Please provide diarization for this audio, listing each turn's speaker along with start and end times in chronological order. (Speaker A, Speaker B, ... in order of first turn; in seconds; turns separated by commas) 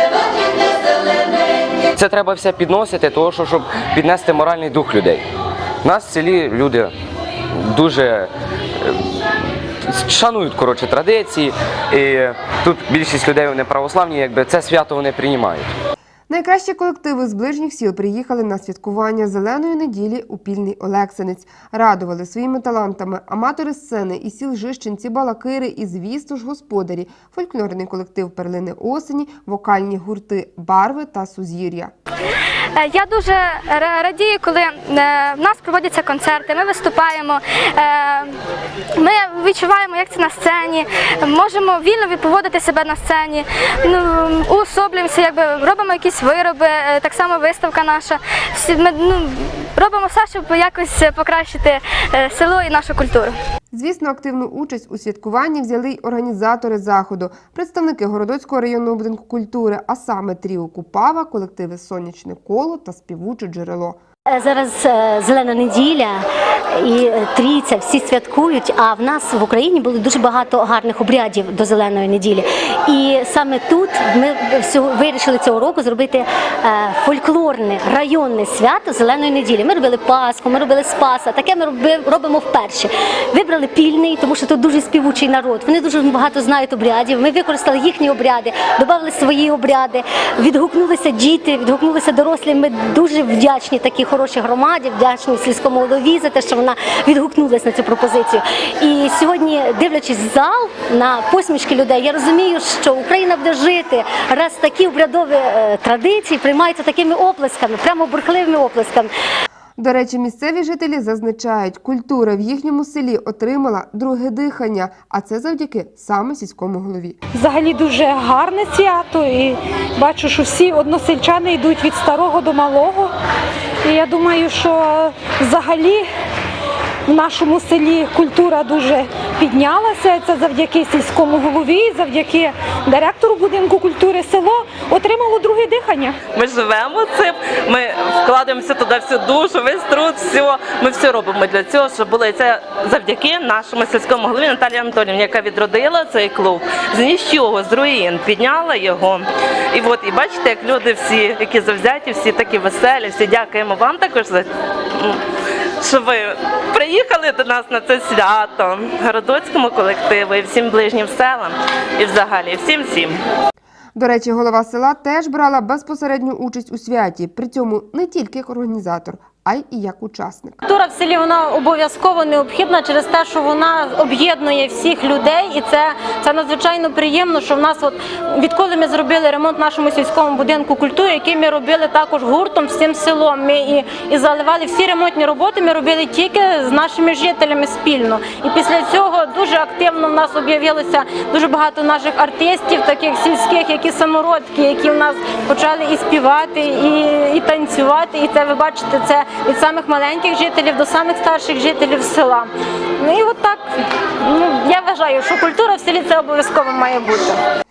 Speaker A: 1.9-5.2, Speaker A: 5.8-6.9, Speaker A: 7.7-8.3, Speaker A: 9.8-15.7, Speaker B: 16.3-31.9, Speaker C: 32.8-38.3, Speaker C: 39.0-53.4, Speaker B: 53.7-64.0, Speaker D: 64.3-109.1, Speaker B: 109.8-117.2, Speaker E: 117.3-123.1, Speaker E: 123.8-126.1, Speaker E: 127.1-136.2, Speaker F: 136.3-155.2, Speaker F: 155.8-163.2, Speaker B: 163.9-170.6, Speaker G: 170.6-203.6, Speaker G: 204.2-207.4